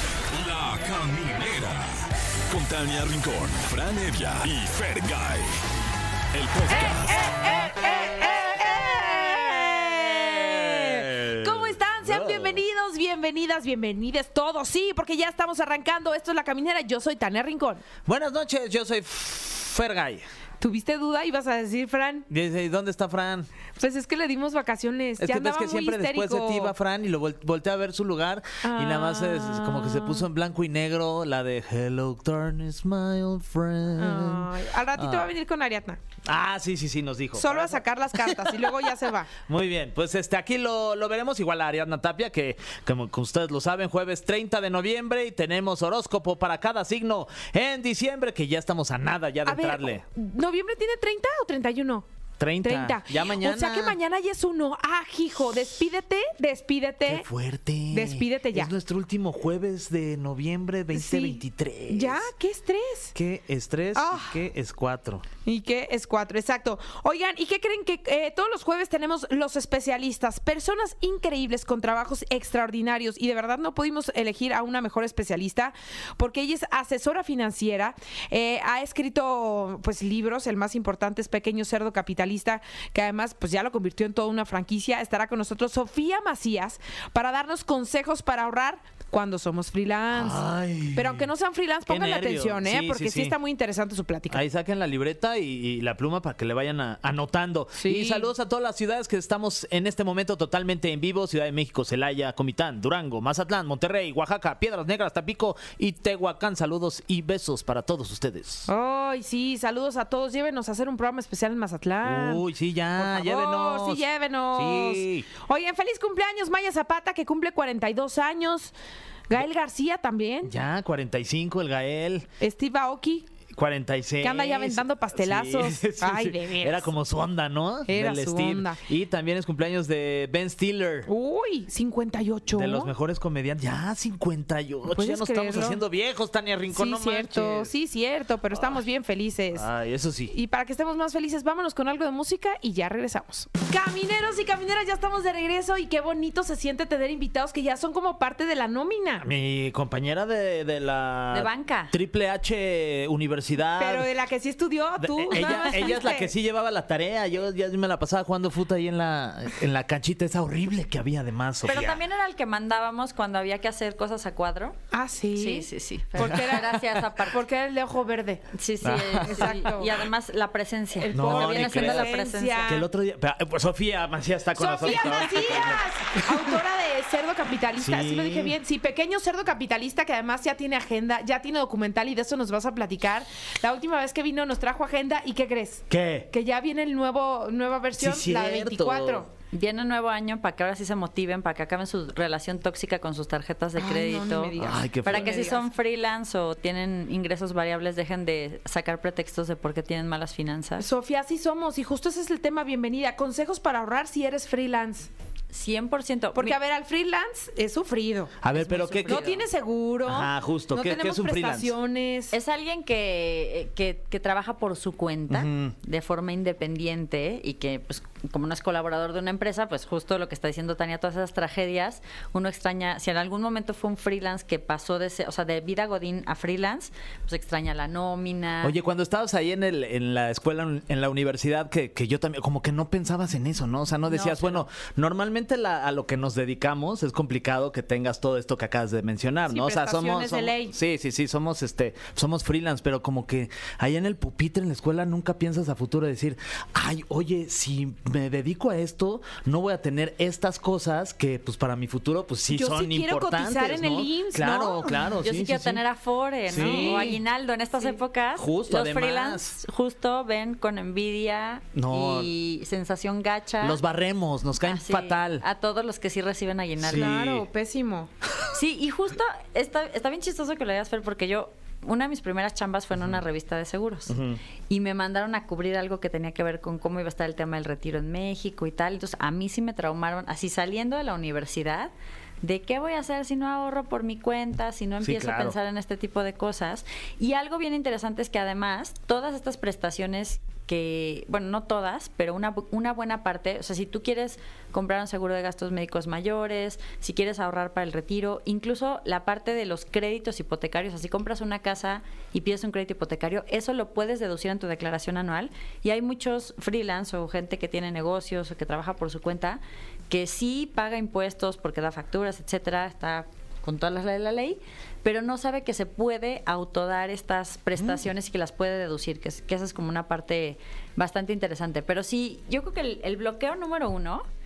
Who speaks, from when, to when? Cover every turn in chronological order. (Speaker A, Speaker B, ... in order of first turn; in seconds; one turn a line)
Speaker A: 0.3-5.5
Speaker A: 6.3-7.3
Speaker B: 6.7-17.8
Speaker C: 7.8-12.6
Speaker C: 18.1-20.2
Speaker B: 20.6-22.2
Speaker C: 22.3-23.5
Speaker B: 23.8-26.7
Speaker C: 25.2-35.3
Speaker B: 28.6-30.3
Speaker B: 34.0-36.0
Speaker C: 36.2-38.8
Speaker B: 37.3-39.3
Speaker C: 39.5-50.0
Speaker B: 49.5-52.0
Speaker C: 52.4-54.0
Speaker B: 52.6-57.3
Speaker C: 57.0-62.3
Speaker B: 57.9-58.7
Speaker B: 60.9-63.1
Speaker C: 63.1-65.2
Speaker B: 63.9-64.4
Speaker B: 65.4-94.4
Speaker C: 90.1-91.3
Speaker C: 91.9-93.4
Speaker C: 94.3-108.7
Speaker B: 97.8-98.3
Speaker B: 108.7-112.4
Speaker C: 112.0-115.3
Speaker B: 113.0-118.7
Speaker B: 119.3-120.5
Speaker C: 120.4-122.3
Speaker B: 122.4-123.3
Speaker C: 123.5-131.1
Speaker B: 124.2-126.9
Speaker B: 127.9-128.8
Speaker B: 131.1-132.9
Speaker C: 132.5-137.7
Speaker B: 134.9-135.8
Speaker B: 136.7-139.7
Speaker C: 139.5-140.3
Speaker B: 140.3-149.3
Speaker C: 149.2-154.1
Speaker D: 151.3-151.9
Speaker B: 153.8-156.3
Speaker C: 155.0-162.0
Speaker D: 161.6-164.8
Speaker B: 164.9-168.4
Speaker D: 165.3-167.4
Speaker C: 166.2-166.6
Speaker D: 168.5-172.8
Speaker C: 168.8-169.7
Speaker B: 169.2-169.9
Speaker B: 171.0-172.9
Speaker C: 171.1-176.5
Speaker B: 174.6-189.3
Speaker C: 177.8-178.6
Speaker C: 185.9-186.3
Speaker C: 187.9-189.2
Speaker D: 189.5-200.9
Speaker B: 193.8-195.7
Speaker C: 194.6-195.3
Speaker B: 200.8-205.1
Speaker D: 205.5-206.6
Speaker B: 206.3-208.4
Speaker C: 208.4-209.3
Speaker D: 208.5-209.4
Speaker B: 209.1-212.3
Speaker C: 210.1-211.7
Speaker D: 212.3-228.8
Speaker C: 215.3-215.7
Speaker C: 228.6-255.8
Speaker D: 234.1-234.6
Speaker B: 239.5-240.7
Speaker B: 252.5-255.0
Speaker D: 255.2-263.8
Speaker C: 256.5-257.2
Speaker B: 256.5-257.1
Speaker C: 258.4-259.5
Speaker C: 261.7-262.3
Speaker C: 263.6-265.4
Speaker D: 264.6-267.1
Speaker C: 266.8-267.5
Speaker B: 266.9-268.1
Speaker D: 268.5-274.2
Speaker C: 274.1-274.4
Speaker D: 274.7-324.2
Speaker C: 285.0-285.6